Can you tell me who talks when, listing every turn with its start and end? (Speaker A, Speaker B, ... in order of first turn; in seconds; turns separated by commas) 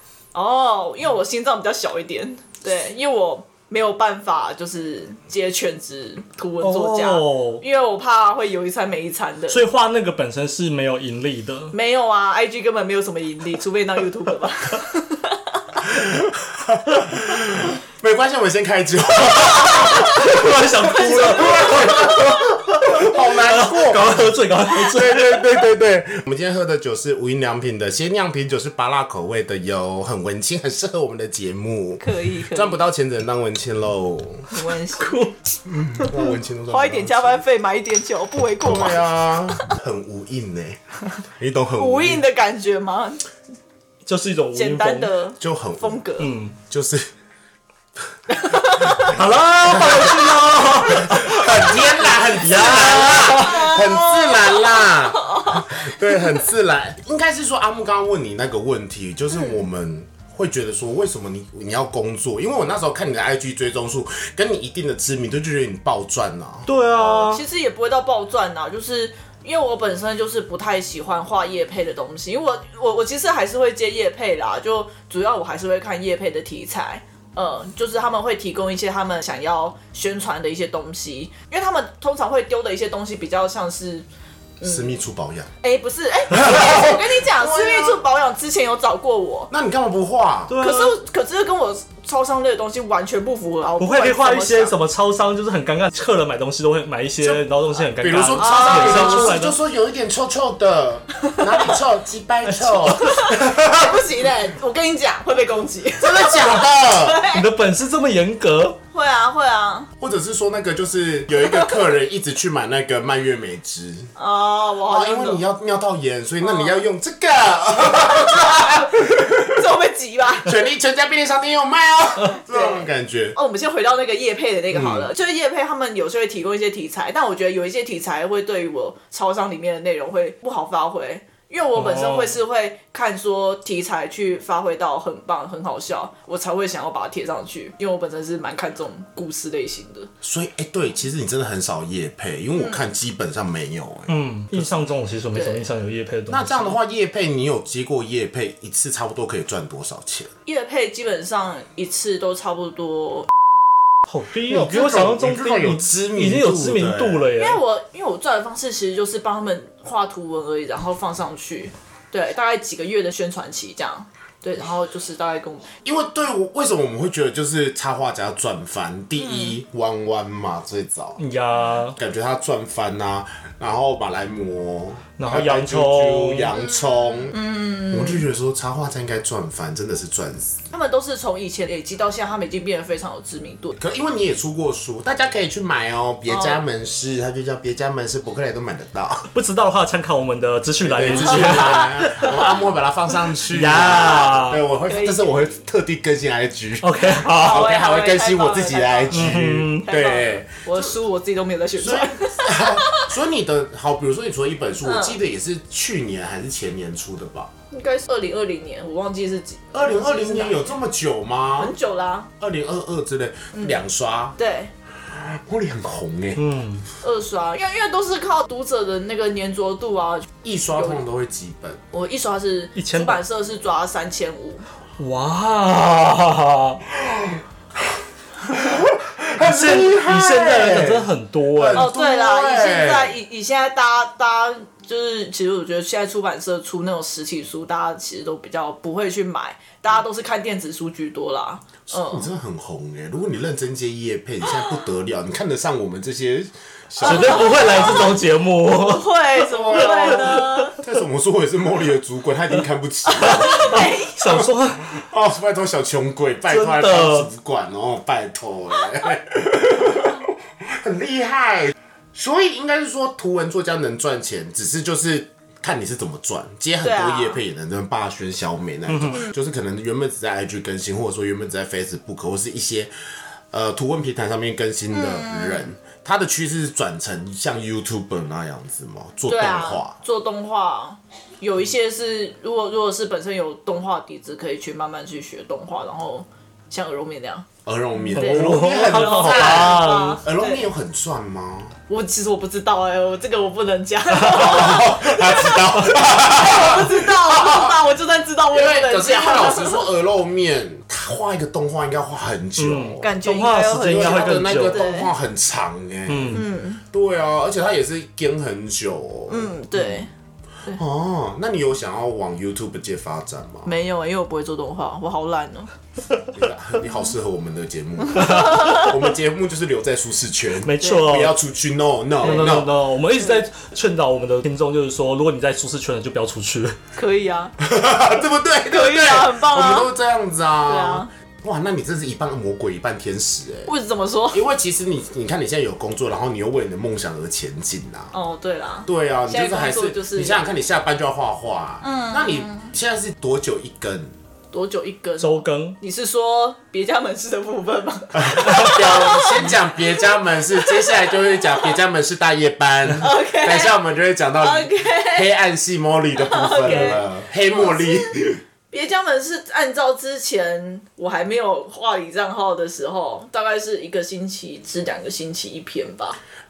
Speaker A: 0.3-9.7, Speaker B: 6.6-7.6, Speaker B: 9.5-11.7, Speaker A: 11.7-15.4, Speaker C: 15.8-34.5, Speaker B: 19.6-25.7, Speaker A: 21.0-22.2, Speaker A: 32.0-32.8, Speaker A: 34.5-35.3, Speaker B: 35.0-35.3, Speaker C: 35.7-37.4, Speaker A: 36.7-39.6, Speaker C: 38.6-40.8, Speaker C: 41.4-42.2, Speaker A: 41.8-43.2, Speaker B: 44.0-45.1, Speaker A: 44.5-46.3, Speaker C: 45.4-46.0, Speaker B: 46.2-46.6, Speaker C: 46.7-47.0, Speaker A: 48.3-49.2, Speaker B: 49.0-53.8, Speaker C: 49.6-66.7, Speaker A: 52.6-55.8, Speaker A: 59.3-59.6, Speaker B: 66.7-67.4, Speaker A: 67.0-84.0, Speaker A: 84.6-85.0, Speaker C: 84.6-85.5, Speaker A: 85.6-89.5, Speaker C: 86.3-88.0, Speaker C: 89.5-90.6, Speaker B: 90.5-91.0, Speaker A: 90.6-94.7, Speaker B: 93.8-99.6, Speaker C: 98.0-104.1, Speaker A: 98.4-99.4, Speaker B: 102.5-103.0, Speaker A: 102.9-107.5, Speaker C: 106.0-107.2, Speaker B: 107.3-108.8, Speaker A: 108.9-109.9, Speaker C: 110.0-114.1, Speaker A: 111.4-111.8, Speaker A: 114.2-115.4, Speaker C: 114.9-119.6, Speaker A: 116.4-116.8, Speaker A: 118.0-118.9, Speaker A: 119.5-120.5, Speaker C: 120.5-123.4, Speaker A: 122.5-140.1, Speaker C: 124.7-125.1, Speaker B: 131.8-132.4, Speaker C: 140.2-144.7, Speaker A: 142.6-142.8, Speaker B: 144.1-146.8, Speaker A: 145.3-145.7, Speaker C: 146.3-150.3, Speaker A: 150.5-153.3, Speaker B: 154.1-157.6, Speaker C: 154.5-157.3, Speaker A: 157.4-165.7, Speaker C: 165.8-171.2, Speaker A: 169.2-169.6, Speaker B: 171.2-172.0, Speaker C: 171.9-180.6, Speaker B: 175.2-176.5, Speaker A: 176.5-178.3, Speaker A: 180.7-183.8, Speaker C: 183.8-189.3, Speaker A: 186.3-186.6, Speaker B: 189.3-192.5, Speaker C: 190.8-200.9, Speaker A: 191.1-192.5, Speaker B: 193.5-194.6, Speaker A: 193.9-194.3, Speaker A: 194.9-195.4, Speaker B: 196.8-197.7, Speaker A: 197.4-203.1, Speaker B: 199.1-199.9, Speaker C: 201.8-207.5, Speaker A: 204.8-205.2, Speaker A: 207.7-210.8, Speaker C: 209.7-211.7, Speaker A: 211.6-212.3, Speaker C: 212.4-214.4, Speaker A: 213.5-213.8, Speaker A: 214.4-214.7, Speaker C: 215.1-216.4, Speaker B: 216.4-216.8, Speaker A: 217.0-221.0, Speaker C: 220.4-221.8, Speaker A: 221.9-224.7, Speaker B: 222.8-223.2, Speaker B: 225.0-226.8, Speaker C: 227.0-227.4, Speaker C: 228.5-233.1, Speaker B: 229.4-231.9, Speaker A: 231.8-242.3, Speaker C: 241.9-248.3, Speaker B: 247.0-249.1, Speaker A: 247.0-250.8, Speaker C: 249.4-272.9, Speaker B: 249.8-250.6, Speaker B: 253.2-255.0, Speaker A: 253.2-254.2, Speaker B: 256.5-257.3, Speaker A: 266.8-267.4, Speaker B: 268.9-269.2, Speaker A: 269.1-269.4, Speaker C: 273.5-280.0, Speaker A: 274.9-275.7, Speaker A: 279.3-287.5, Speaker C: 287.6-291.7, Speaker A: 288.0-290.7, Speaker B: 288.1-290.2, Speaker A: 291.9-299.9, Speaker C: 294.2-297.8, Speaker C: 298.5-303.1, Speaker B: 302.6-304.8, Speaker A: 303.0-305.1, Speaker C: 303.8-310.1, Speaker B: 306.1-306.4, Speaker A: 306.3-306.8, Speaker A: 309.3-310.1, Speaker C: 310.8-313.7, Speaker A: 313.6-315.7, Speaker C: 316.3-322.7, Speaker A: 318.1-318.9, Speaker B: 318.2-319.0, Speaker B: 320.6-321.4, Speaker A: 320.8-321.1, Speaker B: 322.2-326.8, Speaker A: 322.2-322.6, Speaker A: 323.2-323.5, Speaker A: 327.0-327.5, Speaker C: 327.6-333.7, Speaker A: 328.7-329.9, Speaker A: 330.7-331.1, Speaker A: 333.7-334.4, Speaker C: 334.3-338.1, Speaker A: 338.1-340.4, Speaker C: 338.9-344.1, Speaker A: 341.8-342.7, Speaker A: 344.5-349.6, Speaker B: 345.2-345.8, Speaker C: 348.1-358.4, Speaker A: 350.6-351.1, Speaker A: 353.0-353.8, Speaker A: 354.4-355.3, Speaker A: 356.2-358.1, Speaker A: 358.7-366.2